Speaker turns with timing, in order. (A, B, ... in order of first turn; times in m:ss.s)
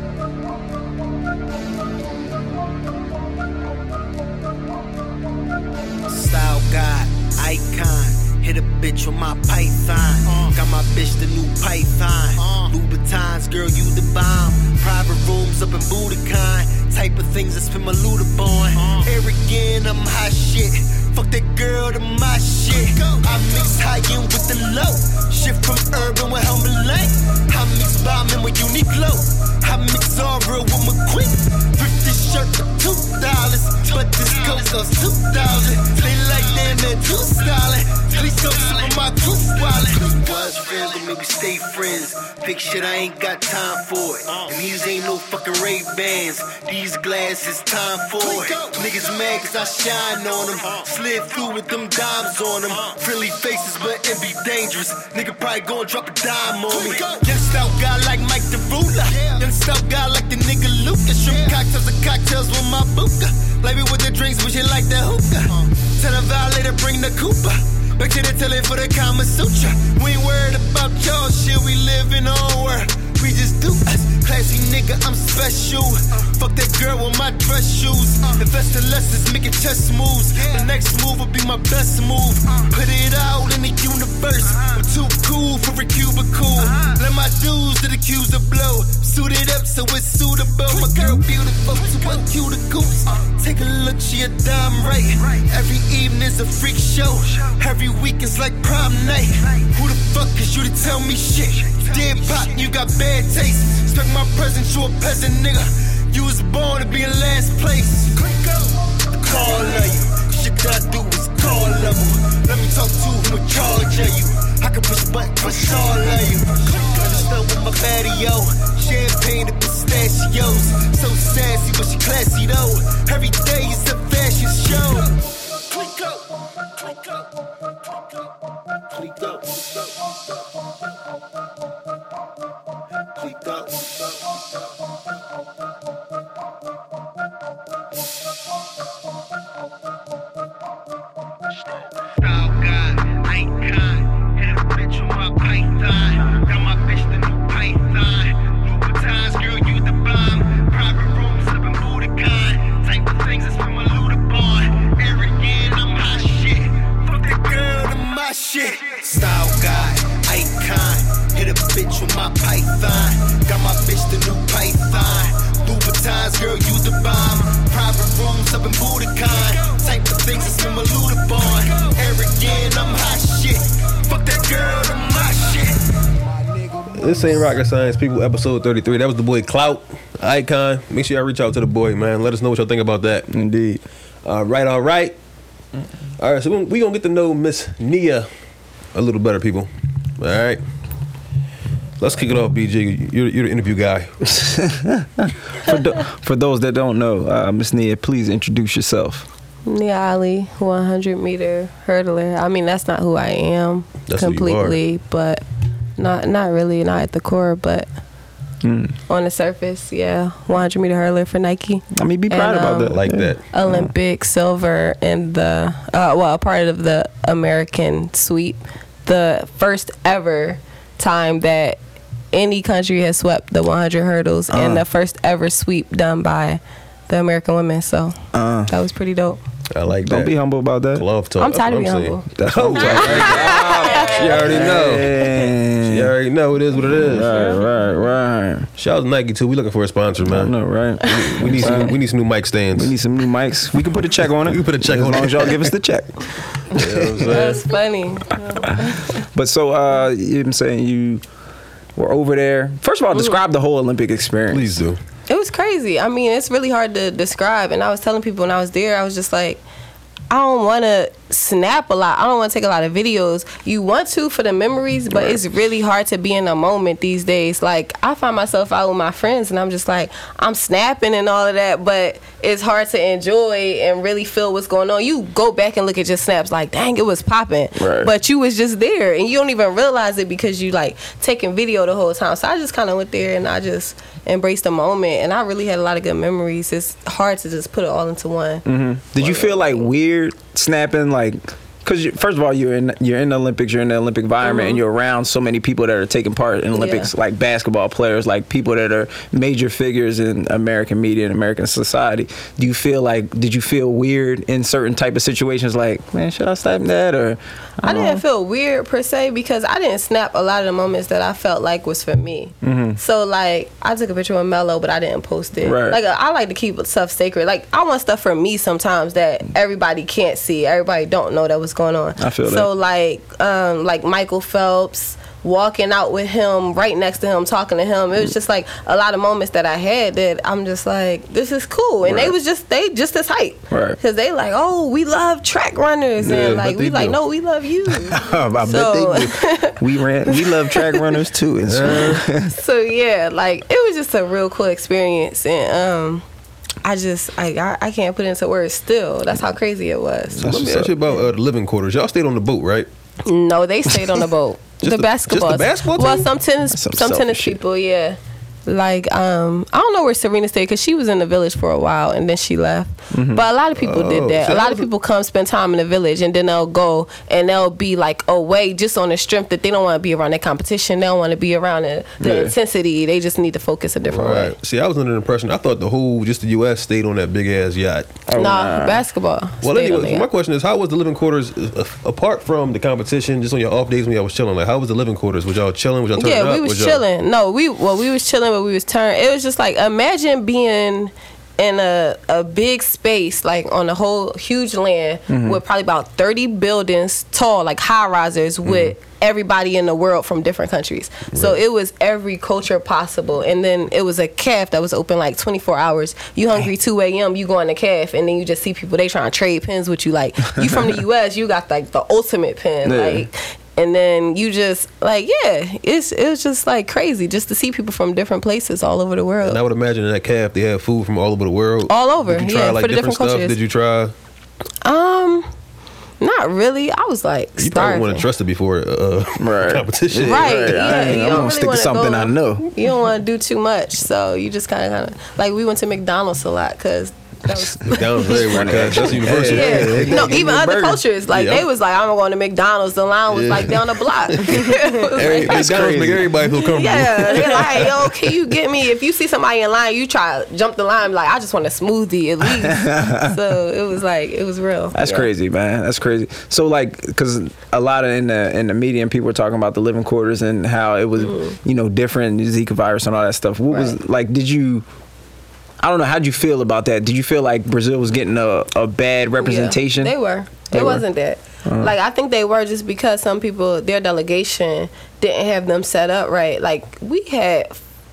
0:06.1-1:48.5 A
1:49.1-2:05.2 A
2:05.7-2:06.1 A
2:08.9-2:09.9 A
2:13.2-2:14.1 A
2:22.0-2:55.8 A
2:56.9-3:03.3 B
3:03.3-3:03.8 C
3:04.2-3:05.1 B
3:06.2-3:08.3 B
3:08.9-3:10.6 B
3:12.0-3:14.3 B
3:14.4-3:19.2 C
3:19.6-3:25.4 D
3:24.1-3:24.8 B
3:26.0-3:27.9 D
3:28.6-3:29.0 C
3:29.1-3:33.0 D
3:31.9-3:33.9 C
3:32.8-3:33.4 B
3:33.5-3:41.8 D
3:42.3-3:49.4 D
3:44.5-3:44.8 C
3:48.3-3:48.8 C
3:49.7-3:50.3 B
3:50.0-3:51.0 C
3:50.9-3:57.4 B
3:51.4-3:54.3 D
3:52.4-3:56.1 C
3:57.0-3:58.7 C
3:58.8-4:03.0 B
4:00.2-4:02.0 C
4:02.8-4:06.1 C
4:04.4-4:05.7 B
4:06.7-4:07.6 B
4:06.7-4:07.2 C
4:07.2-4:08.8 D
4:09.1-4:11.2 C
4:12.0-4:14.7 C
4:14.5-4:15.0 B
4:15.3-4:19.6 D
4:20.3-4:48.6 D
4:37.8-4:38.1 C
4:48.6-5:08.2 C
4:49.1-4:49.9 D
4:54.4-4:54.8 D
4:56.7-4:57.1 D
5:07.8-5:41.1 D
5:12.6-5:13.0 C
5:15.6-5:16.0 C
5:22.2-5:22.7 C
5:32.0-5:32.3 C
5:33.7-5:34.0 C
5:36.2-5:37.1 C
5:36.2-5:37.2 B
5:38.0-5:42.5 C
5:41.7-5:42.2 B
5:42.5-5:46.2 D
5:46.8-5:50.5 D
5:50.4-5:51.2 C
5:50.4-5:52.9 B
5:53.2-6:14.5 D
5:54.8-5:56.3 B
5:56.7-5:57.6 C
6:03.1-6:03.4 C
6:03.8-6:04.9 B
6:12.2-6:12.5 C
6:14.1-6:18.2 B
6:18.3-6:19.0 C
6:18.3-6:20.2 D
6:19.6-6:27.0 B
6:26.2-6:59.6 D
6:35.3-6:35.6 C
6:38.6-6:38.9 B
6:41.3-6:41.6 B
6:52.8-6:53.2 C
6:59.4-7:04.1 B
7:01.9-7:03.6 D
7:04.8-7:05.5 D
7:06.2-7:08.3 D
7:07.6-7:11.2 B
7:09.4-7:12.7 C
7:10.2-7:25.8 D
7:17.8-7:20.5 B
7:18.4-7:21.0 C
7:21.3-7:21.6 B
7:23.3-7:28.3 B
7:25.3-7:26.3 C
7:26.4-7:35.3 D
7:32.4-7:33.4 C
7:34.9-7:44.8 C
7:41.2-7:41.6 D
7:43.7-7:44.0 D
7:45.8-7:50.1 C
7:49.4-7:57.8 D
7:50.7-7:51.0 C
7:51.6-7:51.9 C